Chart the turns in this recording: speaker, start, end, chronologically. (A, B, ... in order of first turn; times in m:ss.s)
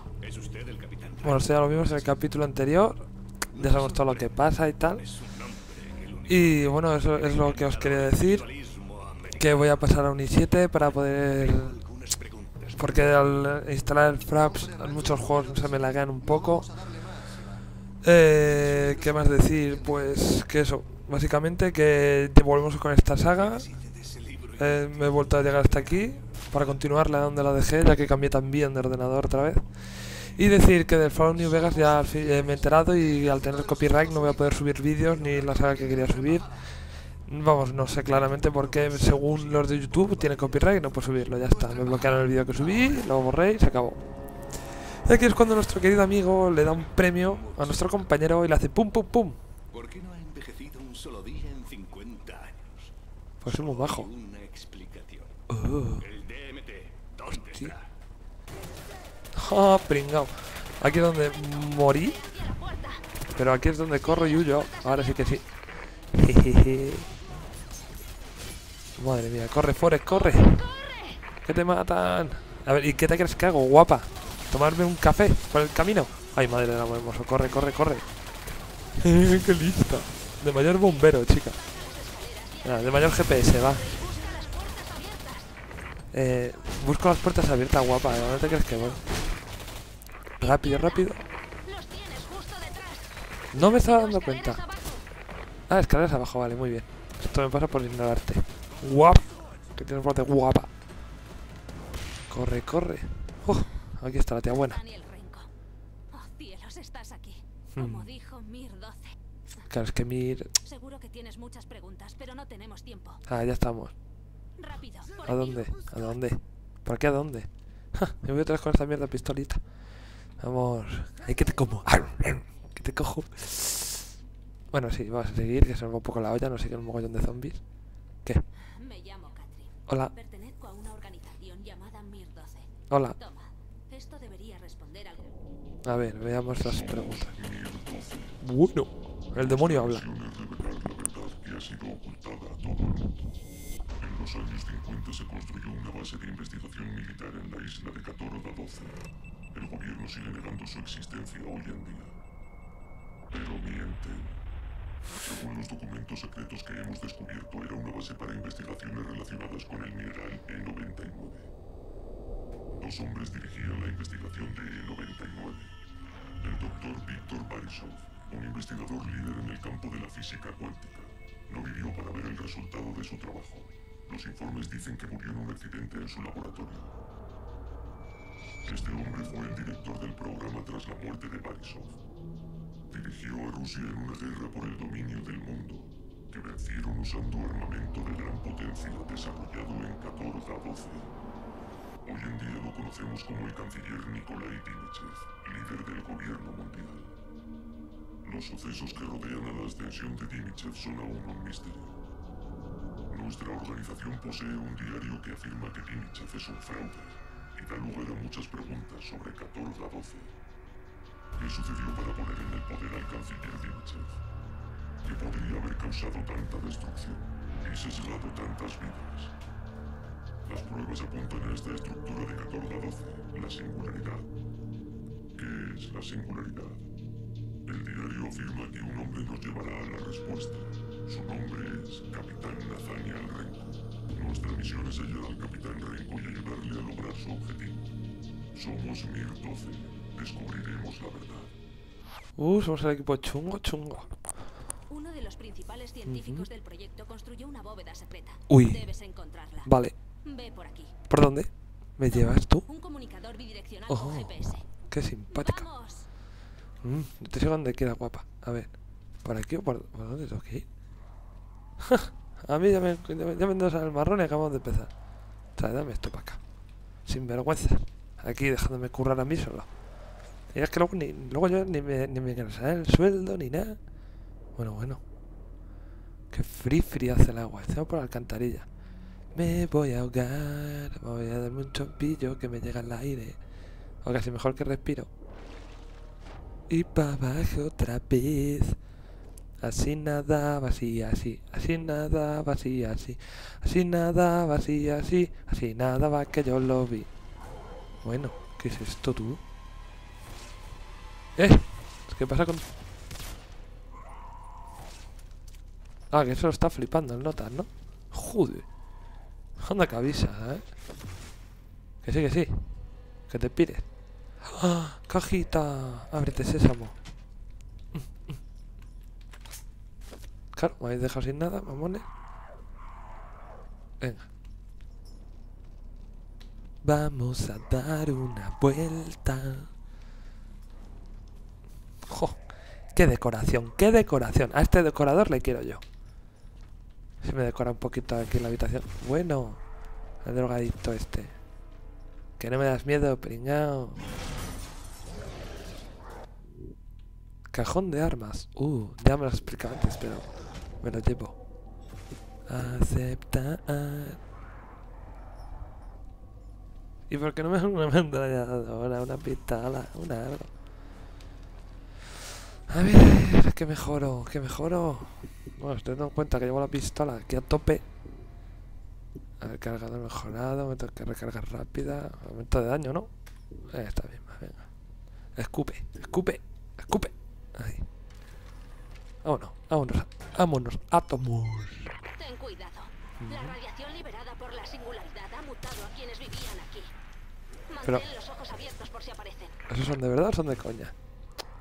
0:00.2-0:01.4 A
0:01.2-0:05.1 B
0:03.7-0:04.1 A
0:05.2-0:09.3 A
0:06.2-0:08.5 B
0:09.3-0:11.8 B
0:11.5-0:12.8 A
0:12.7-0:16.9 B
0:18.0-0:23.7 B
0:23.7-0:24.6 A
0:24.5-0:44.0 B
0:38.9-0:39.6 A
0:44.8-0:49.4 B
0:49.7-0:52.8 A
0:53.4-0:54.1 B
0:53.5-0:55.3 A
0:55.5-0:56.1 B
0:56.0-0:57.7 A
0:57.2-0:57.8 B
0:59.3-1:02.2 B
1:01.8-1:03.0 C
1:03.3-1:05.4 B
1:04.0-1:05.4 C
1:06.1-1:07.1 B
1:09.0-1:10.6 B
1:10.1-1:11.2 C
1:11.4-1:18.0 B
1:19.0-1:21.6 B
1:21.6-1:25.5 C
1:22.6-1:23.9 B
1:26.1-1:29.0 B
1:30.4-1:31.2 B
1:30.4-1:35.0 C
1:33.5-1:34.6 B
1:35.7-1:40.7 B
1:42.3-1:44.8 B
1:44.5-1:45.5 C
1:46.1-1:49.2 C
1:47.7-1:48.1 B
1:49.7-1:50.5 B
1:50.6-1:53.2 C
1:53.2-1:53.9 B
1:54.6-1:56.2 C
1:55.2-1:59.6 B
2:00.4-2:04.0 B
2:04.7-2:07.6 B
2:08.7-2:15.3 C
2:09.9-2:10.1 B
2:12.9-2:13.2 B
2:15.8-2:17.3 B
2:16.6-2:18.4 D
2:18.4-2:20.0 B
2:19.4-2:23.3 D
2:24.0-2:32.2 D
2:33.3-2:34.4 D
2:35.1-2:41.5 D
2:42.7-2:45.7 D
2:46.4-2:57.0 D
2:58.6-3:02.0 D
3:02.9-3:11.1 D
3:12.0-3:17.2 D
3:18.2-3:22.0 D
3:23.1-3:30.3 D
3:31.4-3:34.2 D
3:35.0-3:39.3 D
3:40.4-3:44.3 D
3:45.3-3:46.8 D
3:47.6-3:57.9 D
3:58.5-4:01.5 D
4:02.4-4:04.2 B
4:04.9-4:09.7 C
4:06.0-4:06.5 B
4:08.5-4:08.8 B
4:09.6-4:10.0 B
4:10.2-4:10.9 C
4:11.1-4:12.6 B
4:12.1-4:14.6 C
4:13.9-4:15.7 B
4:15.3-4:16.1 C
4:16.8-4:20.6 B
4:21.8-4:24.9 B
4:25.5-4:26.4 B
4:27.0-4:29.7 B
4:30.5-4:33.8 B
4:34.5-4:35.0 B
4:36.3-4:38.7 B
4:39.3-4:43.4 B
4:44.0-4:45.1 B
4:46.7-4:48.8 B
4:49.6-4:57.1 B
4:58.0-4:59.4 B
5:01.4-5:02.6 B
5:06.1-5:08.7 B
5:09.6-5:10.7 B
5:12.0-5:12.7 B
5:13.3-5:13.8 B
5:14.4-5:16.9 B
5:20.5-5:22.1 B
5:24.0-5:24.3 B
5:26.8-5:29.7 B
5:32.0-5:35.8 B
5:37.2-5:39.6 B
5:40.2-5:41.4 B
5:42.4-5:44.1 B
5:47.5-5:51.4 B
5:52.5-5:54.2 B
5:57.1-6:00.5 B
6:02.7-6:07.8 B
6:09.4-6:13.1 B
6:13.7-6:14.7 B
6:15.3-6:17.9 B
6:19.2-6:22.0 B
6:22.1-6:26.9 C
6:23.2-6:23.6 B
6:27.7-6:29.6 C
6:29.7-6:30.9 B